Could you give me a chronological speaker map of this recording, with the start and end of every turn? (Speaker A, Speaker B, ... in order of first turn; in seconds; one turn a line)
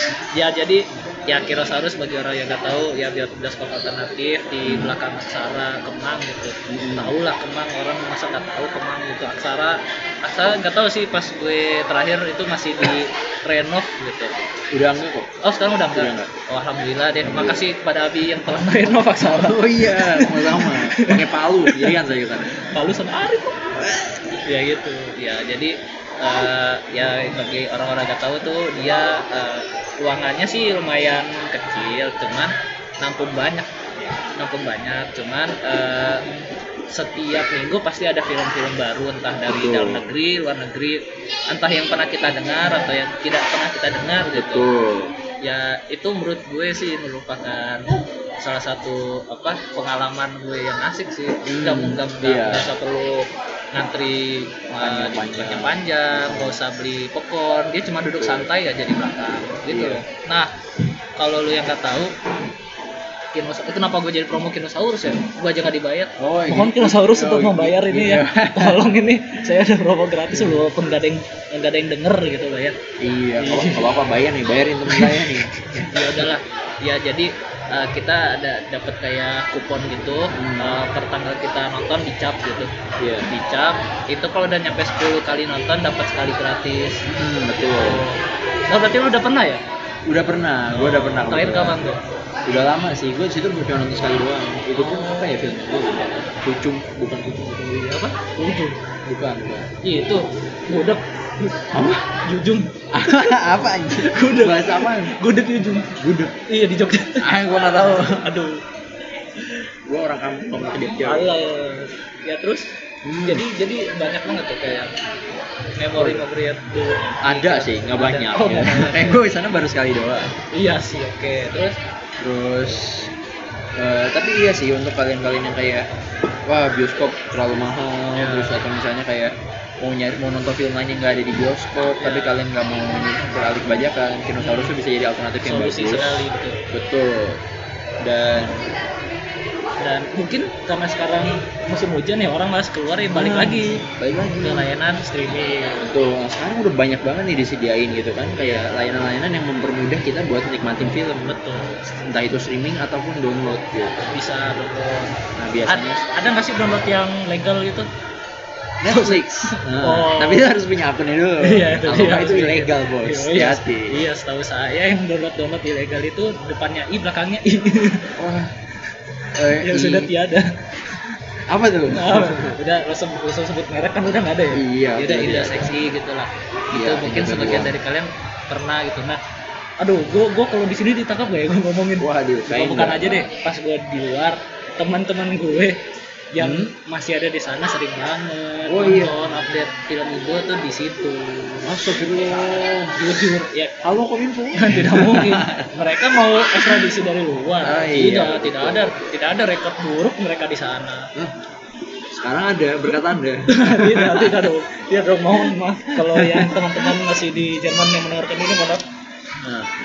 Speaker A: 0.3-14.3
Speaker B: 4.6-5.0
Speaker B: 6.7-7.1
Speaker B: 14.7-15.3
Speaker A: 15.4-23.9
Speaker B: 15.9-16.3
Speaker B: 17.2-17.6
Speaker B: 19.2-22.6
Speaker A: 24.4-33.7
Speaker A: 34.4-36.2
Speaker A: 36.9-44.7
Speaker B: 39.5-40.1
Speaker B: 44.3-45.1
Speaker A: 45.4-60.5
Speaker B: 51.5-52.7
Speaker B: 54.8-56.6
Speaker B: 58.2-58.5
Speaker B: 59.7-60.0
Speaker A: 61.2-62.1
Speaker A: 63.3-72.8
Speaker B: 66.2-68.8
Speaker B: 70.3-70.7
Speaker B: 73.0-76.3
Speaker A: 73.4-74.0
Speaker A: 74.8-82.7
Speaker B: 80.3-80.8
Speaker B: 83.0-83.3
Speaker A: 83.3-87.0
Speaker B: 87.1-88.0
Speaker A: 87.6-89.6
Speaker B: 90.1-91.8
Speaker A: 90.7-92.0
Speaker B: 92.5-97.9
Speaker A: 94.8-95.5
Speaker A: 97.8-98.8
Speaker B: 99.0-99.7
Speaker A: 99.8-105.9
Speaker B: 101.7-102.0
Speaker B: 102.9-105.2
Speaker B: 106.0-106.3
Speaker A: 106.5-108.6
Speaker B: 107.2-108.3
Speaker B: 109.9-111.3
Speaker A: 110.9-112.7
Speaker B: 113.0-113.4
Speaker A: 113.2-114.9
Speaker A: 115.8-119.2
Speaker B: 116.0-116.2
Speaker B: 117.2-120.3
Speaker A: 120.5-121.8
Speaker B: 122.2-123.1
Speaker B: 123.8-125.8
Speaker B: 126.5-136.2
Speaker A: 128.2-128.6
Speaker A: 131.8-132.4
Speaker A: 134.4-134.7
Speaker A: 135.4-136.6
Speaker B: 136.7-137.4
Speaker B: 138.0-138.7
Speaker A: 139.8-143.8
Speaker B: 143.1-144.7
Speaker A: 144.4-146.0
Speaker B: 145.8-151.4
Speaker A: 148.4-148.7
Speaker A: 151.2-151.9
Speaker B: 152.0-154.1
Speaker A: 154.0-157.9
Speaker B: 155.3-156.0
Speaker B: 158.8-164.0
Speaker A: 158.8-160.5
Speaker A: 161.4-168.1
Speaker B: 168.2-168.5
Speaker B: 169.3-170.1
Speaker A: 169.5-171.2
Speaker B: 171.5-172.6
Speaker A: 171.9-179.2
Speaker B: 174.5-175.8
Speaker B: 176.7-177.7
Speaker A: 179.8-185.8
Speaker B: 182.0-183.2
Speaker A: 186.3-193.8
Speaker B: 186.4-186.7
Speaker B: 188.7-189.2
Speaker B: 191.6-193.3
Speaker B: 193.8-195.7
Speaker A: 194.5-201.1
Speaker B: 196.4-196.9
Speaker B: 197.6-199.0
Speaker B: 202.1-204.5
Speaker A: 203.5-208.8
Speaker B: 205.9-206.9
Speaker B: 209.4-209.7